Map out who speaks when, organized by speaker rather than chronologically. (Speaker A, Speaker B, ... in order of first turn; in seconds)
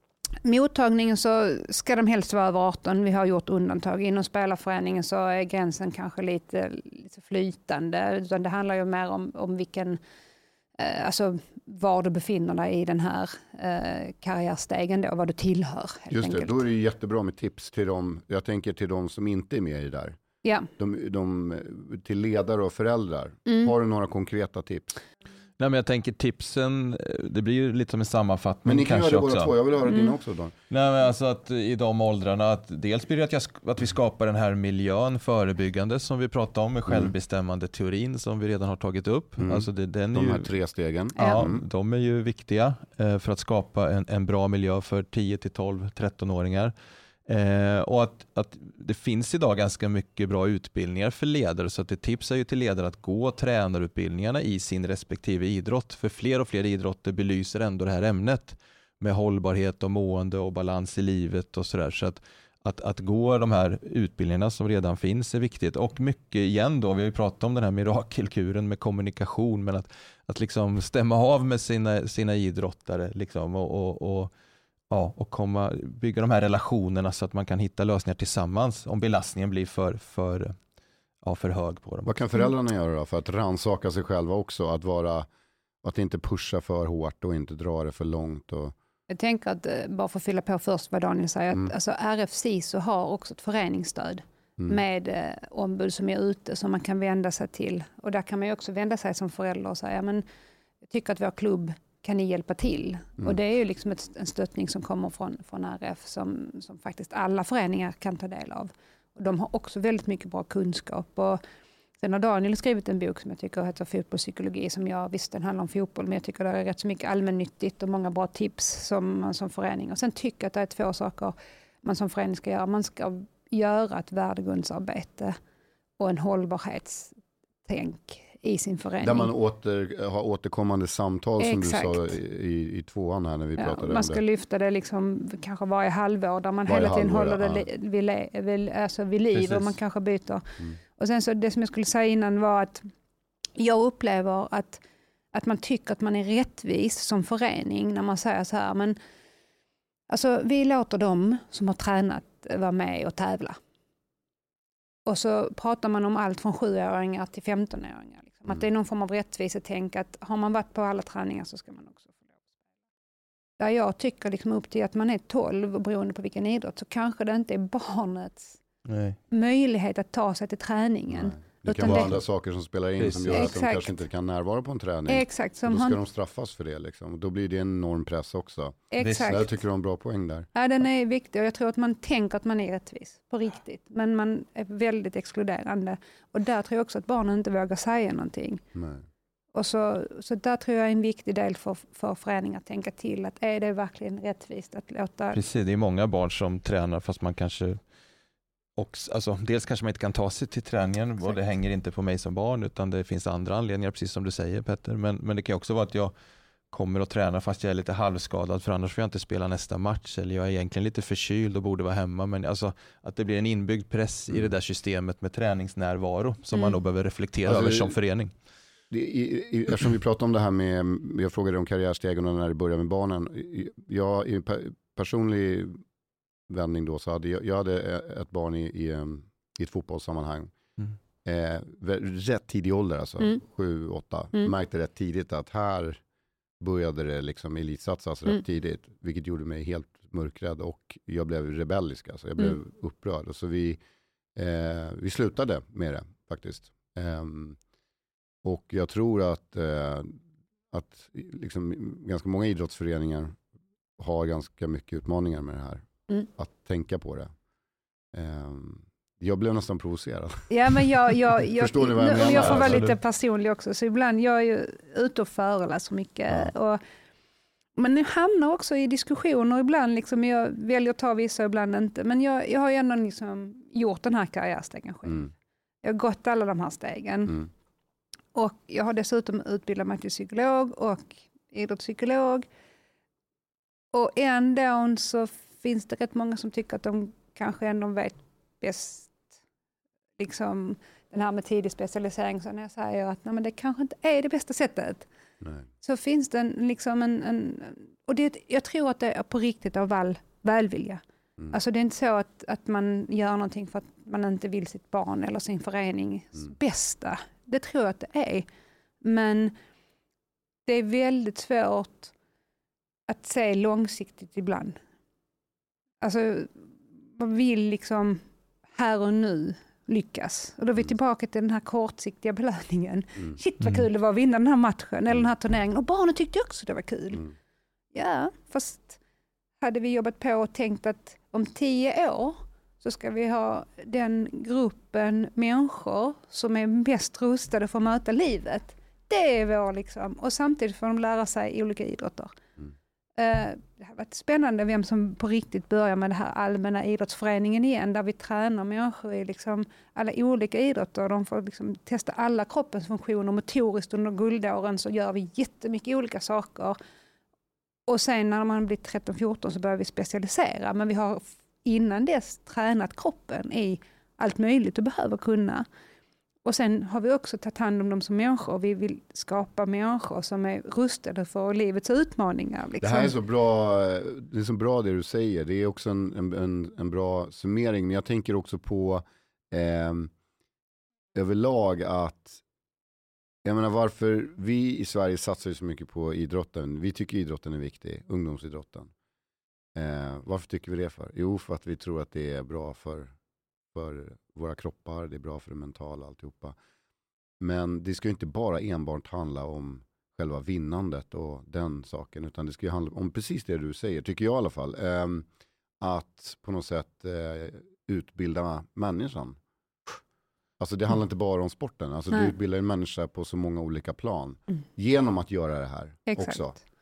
Speaker A: 0.4-10.0, 10.8-16.6, 20.4-20.7, 23.4-23.7, 29.9-30.1, 41.2-41.4, 89.1-100.2, 100.9-111.4, 112.0-125.4, 126.0-129.3, 131.4-132.2, 133.6-142.9, 143.6-149.0, 150.1-153.6, 155.1-162.2, 163.6-168.6, 169.3-172.1, 173.3-174.0, 175.1-176.0, 178.9-179.5, 180.5-188.6, 189.5-195.4, 260.5-266.8, 267.8-275.3, 275.8-277.4, 278.3-282.4, 283.9-289.3, 290.2-295.1, 295.8-308.4, 309.0-309.5, 310.6-312.1, 313.1-314.8, 316.0-318.2, 318.7-327.3, 327.9-329.0, 329.6-342.3, 343.2-356.8, 357.9-365.6, 366.4-373.1, 416.1-416.5
Speaker B: 16.1-20.2, 20.8-24.9, 28.6-30.5, 36.9-37.1, 39.4-41.6, 82.0-85.3, 85.8-88.7, 129.0-134.2, 136.7-137.6, 171.1-180.5, 188.7-189.0, 217.4-218.0, 218.9-225.8, 226.5-230.5, 231.2-236.0, 236.6-243.8, 244.3-247.6, 248.4-250.2, 250.7-253.4, 254.0-257.3, 258.1-260.5, 261.5-262.9, 295.4-295.6, 372.8-380.1, 381.1-382.4, 383.4-388.9, 389.8-393.1, 393.7-396.6, 397.4-405.3, 405.8-409.4, 410.6-416.6
Speaker C: 25.6-29.5, 30.7-40.5, 41.1-46.7, 47.2-74.3, 74.9-80.5, 81.2-82.2, 139.3-139.7, 168.8-169.2, 171.8-172.2, 173.0-173.5, 179.0-179.4, 195.3-197.8, 198.8-206.1, 206.7-218.3, 262.2-263.0, 323.6-323.9